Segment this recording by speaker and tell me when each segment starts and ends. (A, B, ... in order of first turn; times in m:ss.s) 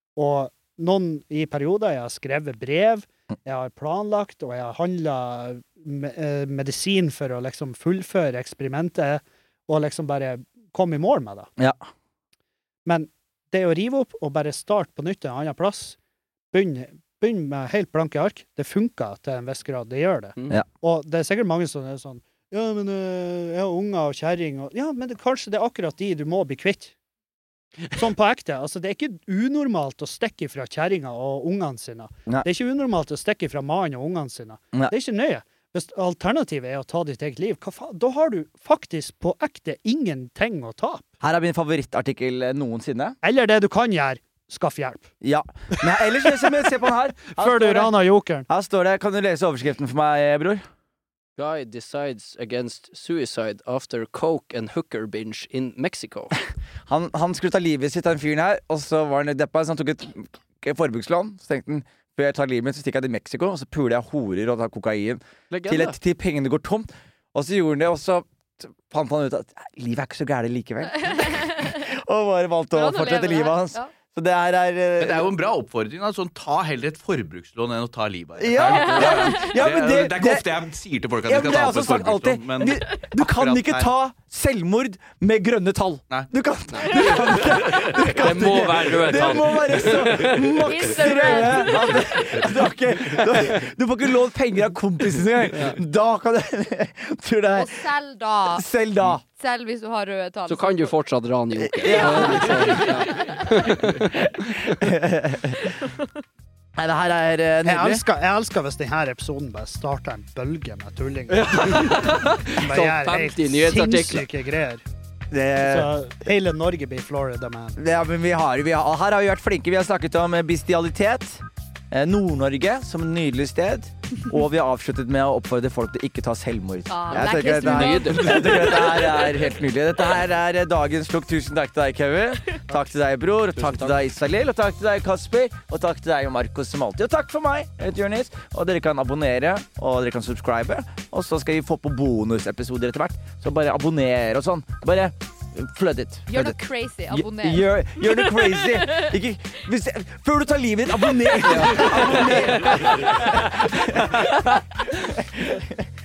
0:00.2-0:11.5 A
0:12.8-0:16.0 A
0:16.5-0:26.9 A
0:27.9-0:41.1 A
0:41.2-0:43.2 B
0:43.2-0:45.1 A
0:45.2-0:47.9 B
0:45.8-0:46.5 A
0:47.4-0:48.5 A
0:48.5-0:50.6 B
0:51.4-0:56.4 C
0:56.9-1:15.3 B
1:05.5-1:06.0 C
1:11.1-1:11.8 D
1:12.7-1:13.9 D
1:15.0-1:23.9 E
1:18.4-1:20.5 B
1:18.7-1:19.5 D
1:21.2-1:37.8 B
1:27.2-1:29.9 E
1:28.2-1:30.4 C
1:30.6-1:32.3 D
1:37.5-1:38.6 D
1:38.5-1:39.2 B
1:39.4-1:40.9 D
1:40.5-1:44.1 C
1:41.6-1:43.0 B
1:41.8-1:43.4 D
1:44.2-1:45.7 B
1:45.6-1:46.1 D
1:46.7-1:48.0 B
1:47.6-1:54.8 A
1:51.3-1:54.3 C
1:55.3-1:55.9 B
1:55.6-1:57.8 A
1:57.8-2:26.6 B
2:06.9-2:09.0 D
2:07.4-2:09.0 C
2:13.6-2:13.9 C
2:26.3-2:29.1 D
2:27.1-2:34.3 B
2:31.4-2:33.3 C
2:34.2-2:34.6 C